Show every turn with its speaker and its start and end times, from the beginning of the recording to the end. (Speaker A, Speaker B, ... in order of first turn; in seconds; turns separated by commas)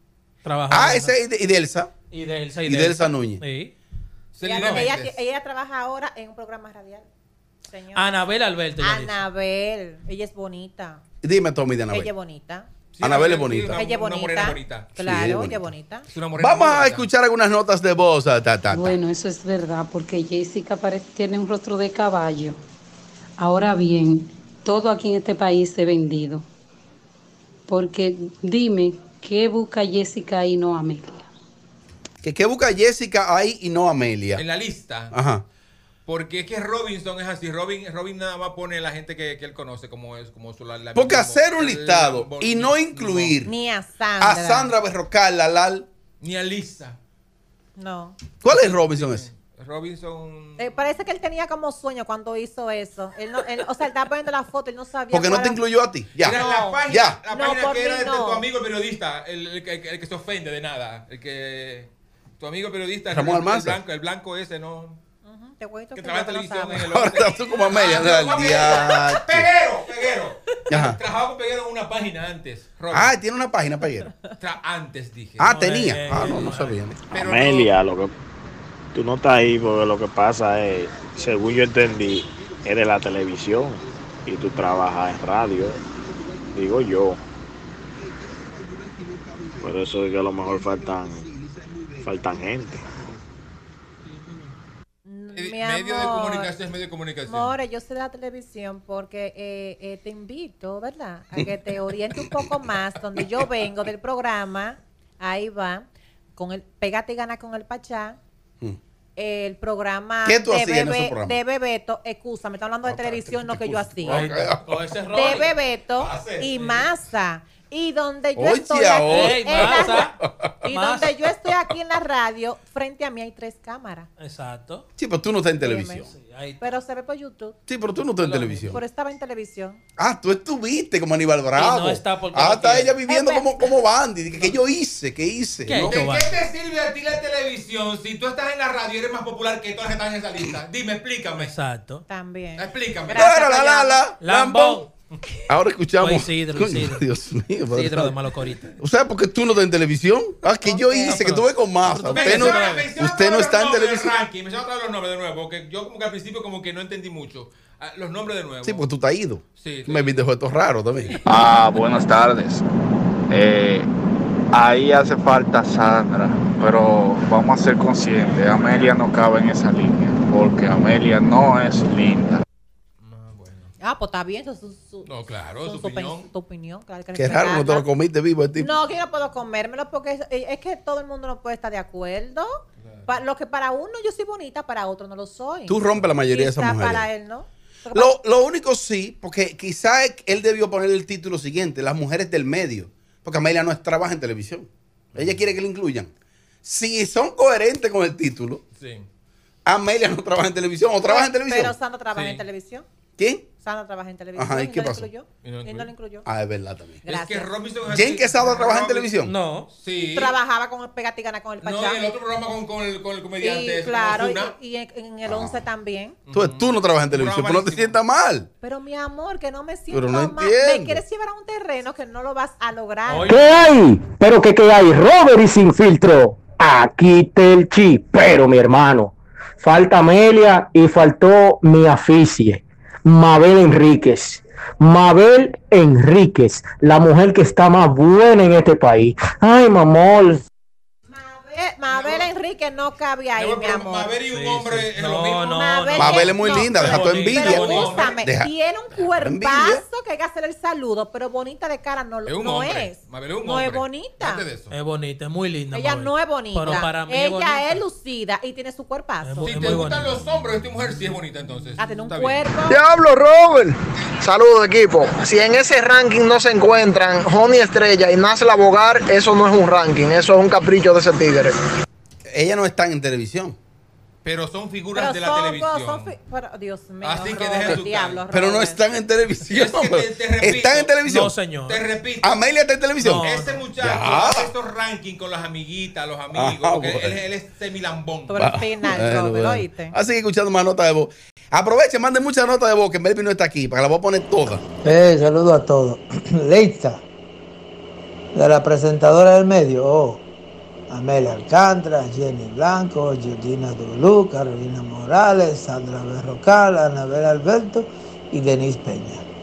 Speaker A: 0.4-1.2, Speaker B: 0.7-1.9, Speaker A: 2.1-3.7, Speaker B: 2.7-3.4, Speaker C: 4.3-5.2, Speaker D: 4.4-7.1, Speaker A: 4.5-4.9, Speaker D: 7.7-8.2, Speaker A: 7.9-9.2, Speaker D: 8.8-11.0, Speaker B: 11.2-12.1, Speaker D: 11.9-12.7, Speaker C: 12.9-14.9, Speaker B: 13.0-13.8, Speaker D: 13.8-16.1, Speaker B: 15.0-15.7, Speaker C: 16.1-17.1, Speaker B: 16.4-18.9, Speaker E: 18.7-22.6, Speaker E: 23.4-26.5, Speaker E: 27.7-31.3, Speaker B: 32.2-34.4, Speaker C: 34.4-35.1, Speaker B: 35.1-35.4, Speaker C: 36.1-43.4, Speaker B: 41.0-43.5, Speaker D: 43.5-44.7, Speaker B: 44.2-45.9, Speaker C: 46.2-47.0, Speaker D: 47.8-48.2, Speaker B: 48.4-49.3, Speaker C: 48.5-50.9, Speaker D: 50.6-55.6, Speaker B: 55.1-57.2, Speaker C: 56.2-65.0, Speaker D: 56.3-58.5, Speaker B: 63.1-63.8, Speaker D: 65.2-67.0, Speaker C: 66.0-73.1, Speaker B: 66.7-69.5, Speaker D: 68.0-68.7, Speaker B: 70.7-71.0, Speaker B: 72.9-74.1, Speaker C: 74.4-75.5, Speaker B: 75.4-77.0, Speaker A: 75.5-76.8, Speaker C: 77.1-77.7, Speaker F: 77.1-78.1, Speaker F: 79.0-85.8, Speaker B: 81.2-82.7, Speaker B: 86.0-86.4, Speaker F: 86.5-87.2, Speaker B: 88.0-93.2, Speaker F: 89.6-91.3, Speaker F: 92.0-92.8, Speaker D: 95.1-96.5, Speaker C: 95.3-97.5, Speaker D: 97.3-108.2, Speaker D: 109.2-114.3, Speaker B: 110.2-111.4, Speaker B: 112.9-114.6, Speaker A: 114.1-115.5, Speaker D: 115.1-124.1, Speaker C: 116.0-116.8, Speaker B: 118.4-120.5, Speaker A: 119.1-121.1, Speaker A: 124.2-124.9, Speaker B: 125.0-126.1, Speaker D: 125.6-126.0, Speaker A: 126.1-126.7, Speaker D: 126.6-127.6, Speaker B: 127.7-128.8, Speaker A: 128.2-128.7, Speaker D: 128.7-129.8, Speaker B: 130.0-136.0, Speaker A: 131.6-133.0, Speaker D: 133.1-133.5, Speaker A: 135.7-136.4, Speaker C: 135.8-141.5, Speaker A: 141.4-142.1, Speaker D: 142.1-144.0, Speaker C: 142.6-143.3, Speaker B: 143.1-144.9, Speaker A: 144.2-144.9, Speaker B: 145.5-148.2, Speaker A: 146.0-147.1, Speaker A: 147.7-148.8, Speaker B: 148.8-154.2, Speaker D: 150.6-151.2, Speaker A: 151.1-152.9, Speaker C: 152.1-158.9, Speaker B: 158.6-161.2, Speaker C: 159.6-160.2, Speaker G: 161.3-162.7, Speaker G: 163.3-163.9, Speaker G: 164.5-172.4, Speaker C: 173.0-173.7, Speaker D: 173.8-177.9, Speaker C: 175.1-176.3, Speaker B: 177.2-178.7, Speaker D: 178.6-188.2, Speaker C: 182.8-183.2, Speaker B: 185.7-187.1, Speaker B: 187.9-196.1, Speaker C: 195.1-195.4, Speaker B: 196.6-198.6, Speaker C: 198.8-199.1, Speaker B: 199.7-201.8, Speaker D: 201.1-202.9, Speaker C: 202.1-202.4, Speaker B: 203.2-203.5, Speaker D: 203.6-206.3, Speaker B: 204.4-205.1, Speaker C: 205.4-205.9, Speaker B: 206.3-207.0, Speaker D: 207.1-207.5, Speaker C: 207.1-209.1, Speaker B: 207.9-209.3, Speaker A: 209.2-209.7, Speaker C: 209.7-210.4, Speaker D: 210.1-212.1, Speaker C: 211.6-214.5, Speaker D: 213.4-216.2, Speaker B: 215.3-215.6, Speaker C: 216.3-218.0, Speaker B: 216.3-218.5, Speaker D: 218.6-223.4, Speaker B: 219.9-221.0, Speaker A: 223.1-223.4, Speaker H: 223.3-240.5, Speaker D: 241.1-244.1, Speaker C: 241.9-242.3, Speaker C: 243.4-245.6, Speaker A: 244.3-248.0, Speaker D: 245.5-254.4, Speaker B: 246.0-248.5, Speaker C: 246.8-248.2, Speaker B: 249.2-249.8, Speaker C: 252.3-254.7, Speaker A: 254.7-257.8, Speaker D: 255.7-259.7, Speaker A: 259.2-260.2, Speaker C: 259.4-262.5, Speaker D: 261.8-262.8, Speaker I: 262.7-271.6, Speaker B: 272.3-273.6, Speaker C: 274.2-276.1, Speaker D: 274.9-278.8, Speaker C: 277.0-278.2, Speaker B: 278.3-281.3, Speaker C: 279.5-280.9, Speaker A: 281.1-281.8, Speaker C: 281.7-282.3, Speaker B: 282.2-283.3, Speaker A: 283.0-283.7, Speaker C: 283.2-288.4, Speaker B: 283.8-284.5, Speaker B: 286.3-287.2, Speaker D: 288.3-289.9, Speaker B: 288.4-294.6, Speaker J: 294.8-297.0, Speaker J: 298.4-300.2, Speaker J: 300.9-309.2